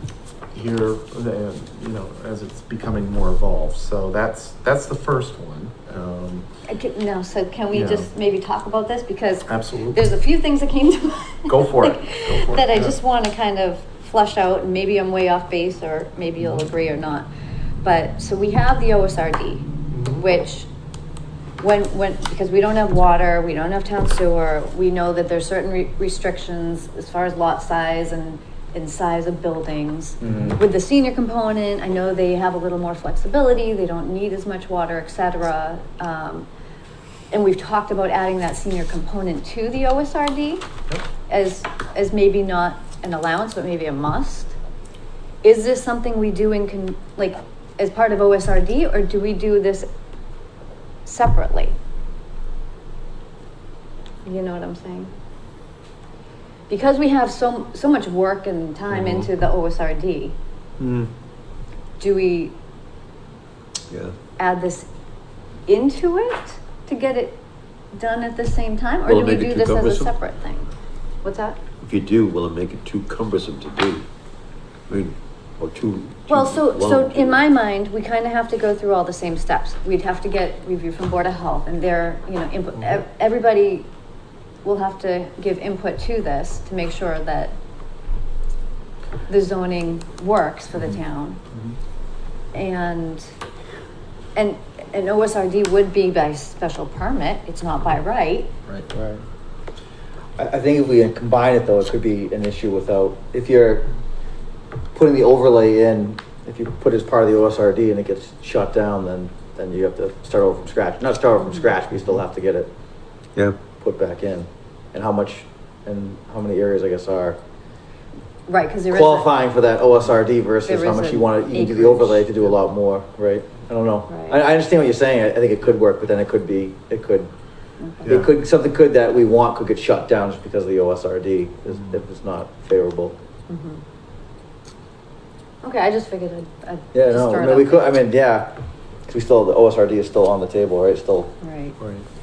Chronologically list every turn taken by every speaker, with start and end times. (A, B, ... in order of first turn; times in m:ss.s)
0:00.5-0:06.5 A
0:06.7-0:17.3 B
0:07.7-0:08.1 A
0:09.5-0:10.0 A
0:11.5-0:13.0 A
0:16.4-0:16.7 A
0:17.8-0:20.7 B
0:19.9-0:20.3 A
0:21.6-0:36.5 B
0:30.2-0:30.6 C
0:37.3-0:40.6 B
0:41.3-0:44.6 B
0:45.4-0:49.9 B
0:51.0-0:51.8 B
0:54.2-0:55.1 B
0:56.7-1:00.4 B
1:00.8-1:01.1 D
1:02.0-1:02.6 B
1:03.9-1:04.2 D
1:04.4-1:04.9 B
1:05.7-1:07.4 B
1:07.9-1:10.7 B
1:09.1-1:10.1 D
1:11.2-1:11.6 B
1:11.8-1:14.1 D
1:14.9-1:17.4 D
1:16.3-1:23.9 B
1:24.6-1:27.6 B
1:29.3-1:31.4 B
1:32.5-1:33.2 B
1:34.4-1:38.5 B
1:38.9-1:39.2 C
1:40.4-1:43.9 C
1:44.9-1:52.7 C
1:51.5-1:51.7 B
1:53.8-1:57.4 C
1:58.5-1:59.3 B
1:58.9-2:07.3 C
2:00.6-2:02.3 B
2:04.1-2:04.4 B
2:07.8-2:08.2 B
2:08.0-2:08.3 A
2:08.1-2:13.2 C
2:13.5-2:13.8 B
2:15.6-2:18.0 B
2:16.9-2:21.3 C
2:21.4-2:21.8 B
2:21.8-2:22.1 A